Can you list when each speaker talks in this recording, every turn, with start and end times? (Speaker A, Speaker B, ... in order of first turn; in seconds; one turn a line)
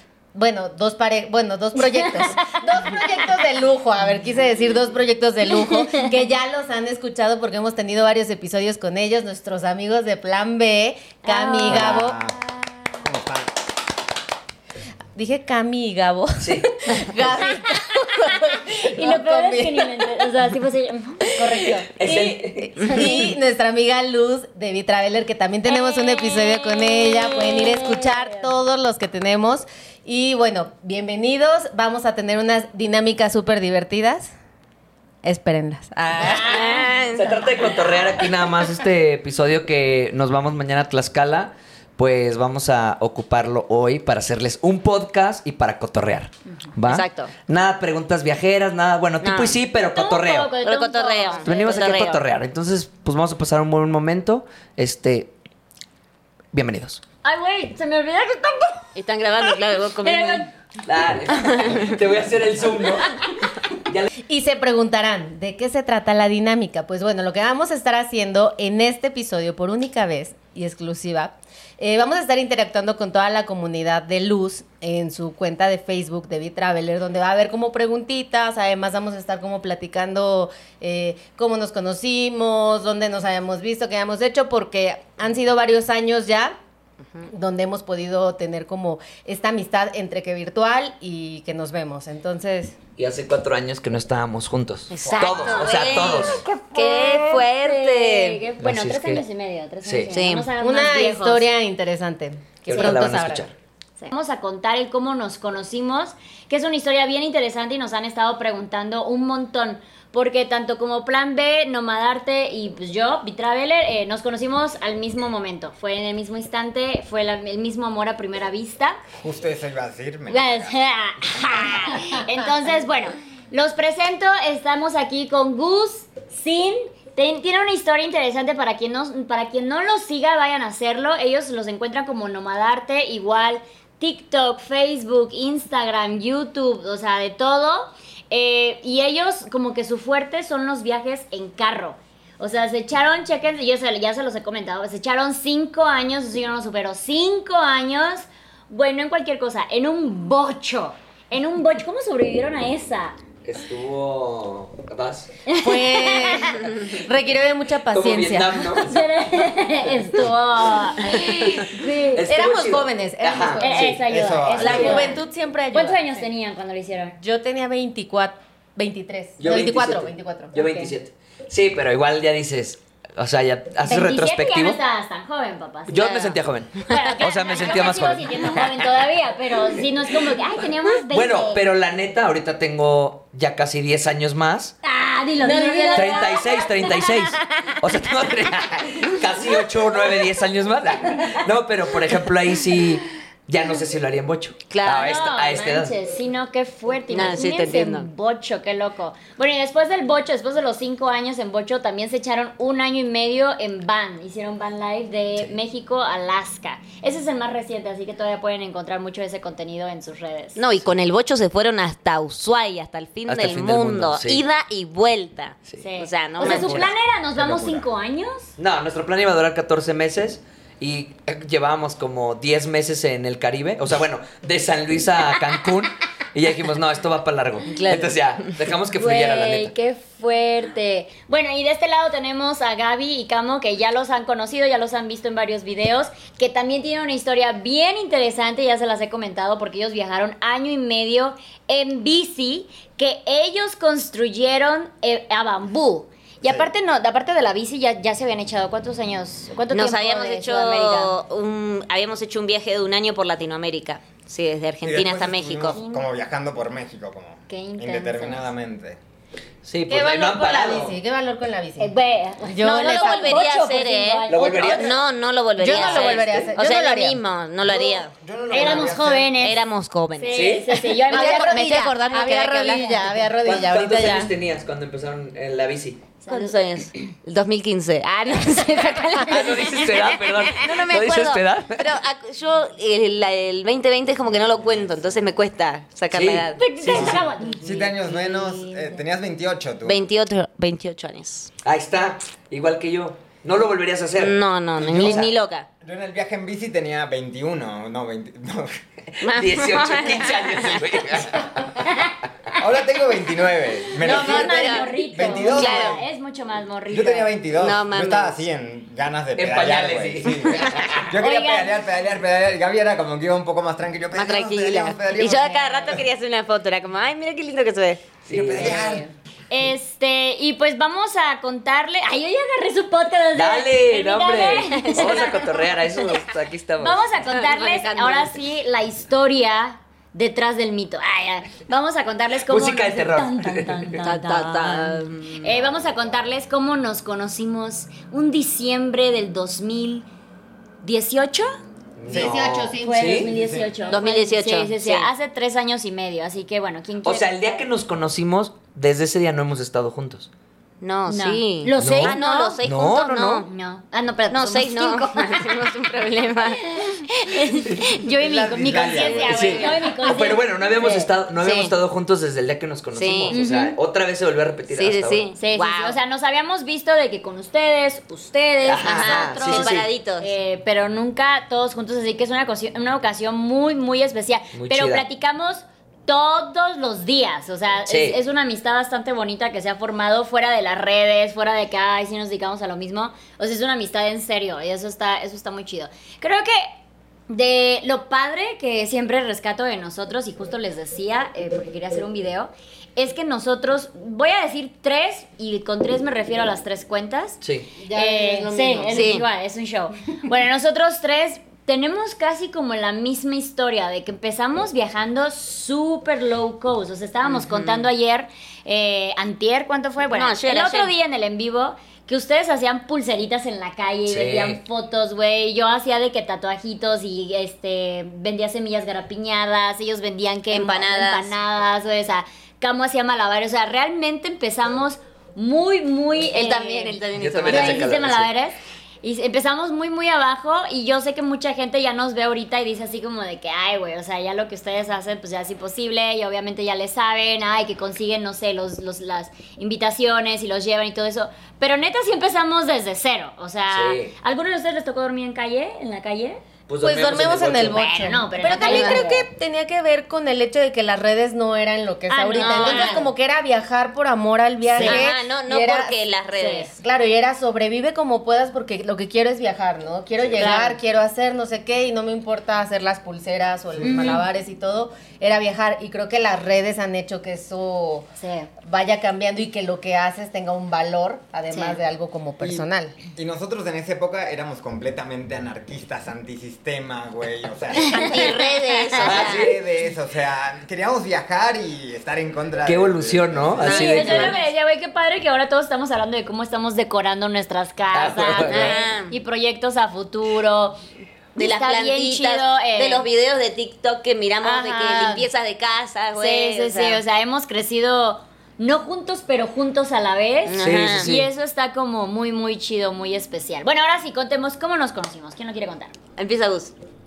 Speaker A: 0.3-12.2
Speaker B: 1.9-3.2
Speaker B: 11.2-12.0
Speaker C: 11.7-12.4
Speaker C: 13.0-13.5
Speaker A: 15.1-20.2
Speaker D: 16.4-16.7
Speaker B: 18.5-23.3
Speaker D: 21.9-22.7
Speaker A: 22.6-34.3
Speaker E: 22.8-23.1
Speaker B: 25.7-28.3
Speaker A: 35.2-36.8
Speaker E: 36.2-37.5
Speaker B: 36.5-36.8
Speaker D: 37.1-50.5
Speaker E: 46.9-47.3
Speaker E: 49.2-49.6
Speaker B: 49.8-52.1
Speaker E: 50.6-52.2
Speaker D: 51.4-55.3
Speaker D: 56.5-57.0
Speaker B: 57.2-58.9
Speaker E: 59.0-60.5
Speaker B: 59.5-60.5
Speaker D: 60.8-63.2
Speaker E: 61.3-61.9
Speaker A: 64.3-86.5
Speaker A: 87.3-92.8
Speaker D: 93.0-96.4
Speaker E: 94.9-98.4
Speaker B: 95.1-101.5
Speaker D: 98.6-99.2
Speaker D: 99.8-100.2
Speaker E: 100.1-100.5
Speaker A: 100.6-103.4
Speaker D: 102.7-103.5
Speaker B: 102.7-103.0
Speaker B: 104.0-119.0
Speaker C: 119.2-120.7
Speaker B: 120.3-153.2
Speaker D: 153.4-155.4
Speaker B: 155.5-156.6
Speaker A: 155.5-158.8
Speaker D: 157.9-159.0
Speaker B: 158.8-162.2
Speaker D: 161.1-164.0
Speaker A: 161.3-161.5
Speaker A: 162.2-164.0
Speaker B: 163.6-167.2
Speaker C: 164.0-165.1
Speaker D: 164.6-165.1
Speaker A: 164.6-166.2
Speaker A: 167.2-170.9
Speaker D: 169.4-174.8
Speaker B: 173.8-176.2
Speaker D: 175.9-178.9
Speaker E: 175.9-177.1
Speaker B: 176.9-181.6
Speaker D: 180.9-184.7
Speaker B: 184.8-187.2
Speaker A: 185.4-186.4
Speaker D: 185.9-195.9
Speaker B: 190.0-190.2
Speaker E: 194.7-195.1
Speaker B: 194.9-210.6
Speaker E: 197.1-198.1
Speaker E: 210.6-216.9
Speaker D: 213.3-214.4
Speaker B: 215.8-218.5
Speaker C: 216.4-217.8
Speaker D: 218.6-229.7
Speaker E: 227.7-228.5
Speaker B: 228.9-251.1
Speaker C: 246.4-246.7
Speaker E: 249.7-255.8
Speaker C: 254.8-259.0
Speaker B: 255.7-256.1
Speaker B: 257.5-258.4
Speaker D: 259.6-261.0
Speaker A: 259.9-261.9
Speaker B: 261.8-265.0
Speaker A: 262.4-263.4
Speaker E: 262.6-270.6
Speaker D: 264.3-265.0
Speaker A: 265.6-267.2
Speaker D: 265.7-266.4
Speaker C: 267.7-269.4
Speaker B: 268.5-269.6
Speaker B: 270.2-271.8
Speaker D: 270.3-270.7
Speaker A: 271.1-274.3
Speaker E: 271.1-273.2
Speaker D: 273.4-276.0
Speaker B: 276.2-276.5
Speaker E: 276.3-286.6
Speaker B: 278.7-280.1
Speaker D: 279.2-281.9
Speaker D: 286.1-287.2
Speaker B: 286.6-288.9
Speaker C: 286.8-290.1
Speaker E: 289.8-291.5
Speaker D: 291.6-295.3
Speaker E: 294.2-295.7
Speaker C: 295.8-298.8
Speaker D: 299.1-301.5
Speaker E: 299.2-301.2
Speaker B: 301.8-302.1
Speaker C: 302.6-306.0
Speaker E: 303.9-306.0
Speaker B: 304.0-307.3
Speaker C: 306.9-315.9
Speaker E: 307.6-308.4
Speaker D: 309.4-311.1
Speaker B: 311.2-311.8
Speaker E: 314.1-318.9
Speaker D: 318.2-319.0
Speaker C: 318.3-319.1
Speaker B: 319.5-325.6
Speaker D: 323.3-327.0
Speaker E: 324.6-325.4
Speaker B: 326.8-340.1
Speaker E: 327.2-328.3
Speaker D: 332.5-333.9
Speaker E: 334.0-335.7
Speaker B: 340.8-341.5
Speaker D: 342.0-343.3
Speaker A: 342.1-343.8
Speaker C: 342.1-342.4
Speaker B: 342.8-347.6
Speaker C: 343.3-343.7
Speaker E: 343.9-345.1
Speaker D: 347.0-350.3
Speaker E: 350.8-353.5
Speaker B: 351.1-352.6
Speaker D: 351.8-353.4
Speaker B: 353.4-355.7
Speaker E: 354.3-357.8
Speaker B: 356.4-361.1
Speaker C: 358.1-359.6
Speaker E: 358.9-359.8
Speaker D: 359.3-365.3
Speaker E: 361.4-361.7
Speaker E: 362.9-363.4
Speaker B: 363.3-363.8
Speaker E: 364.7-366.0
Speaker B: 365.4-386.7
Speaker D: 368.6-369.9
Speaker E: 368.8-370.3
Speaker D: 374.5-375.0
Speaker D: 377.9-378.2
Speaker B: 387.3-397.4
Speaker D: 397.4-397.7
Speaker A: 397.8-398.9
Speaker B: 397.9-446.4
Speaker E: 398.9-399.2
Speaker E: 407.2-407.9
Speaker E: 410.1-410.9
Speaker D: 414.1-414.6
Speaker E: 420.5-421.3
Speaker E: 426.3-427.9
Speaker D: 427.1-428.3
Speaker D: 443.7-444.1
Speaker D: 446.7-447.9
Speaker A: 446.8-455.9
Speaker B: 447.7-449.2
Speaker E: 448.6-449.2
Speaker B: 452.1-453.1
Speaker E: 452.4-453.1
Speaker B: 454.6-455.1
Speaker E: 454.8-456.7
Speaker B: 456.3-456.7
Speaker A: 456.7-468.0
Speaker C: 460.2-460.5
Speaker B: 460.4-460.8
Speaker C: 463.7-464.2
Speaker B: 463.8-464.2
Speaker B: 468.2-468.5
Speaker A: 468.6-473.0
Speaker B: 471.5-471.8
Speaker C: 472.4-478.1
Speaker B: 477.7-479.1
Speaker E: 477.8-479.5
Speaker C: 479.0-484.2
Speaker D: 479.0-479.6
Speaker D: 482.6-484.4
Speaker E: 483.6-484.4
Speaker B: 483.6-490.8
Speaker D: 487.9-488.8
Speaker E: 488.4-489.1
Speaker B: 491.3-493.0
Speaker E: 491.4-497.0
Speaker B: 494.4-495.2
Speaker B: 496.1-505.9
Speaker E: 500.4-501.1
Speaker D: 500.6-501.3
Speaker E: 506.2-506.7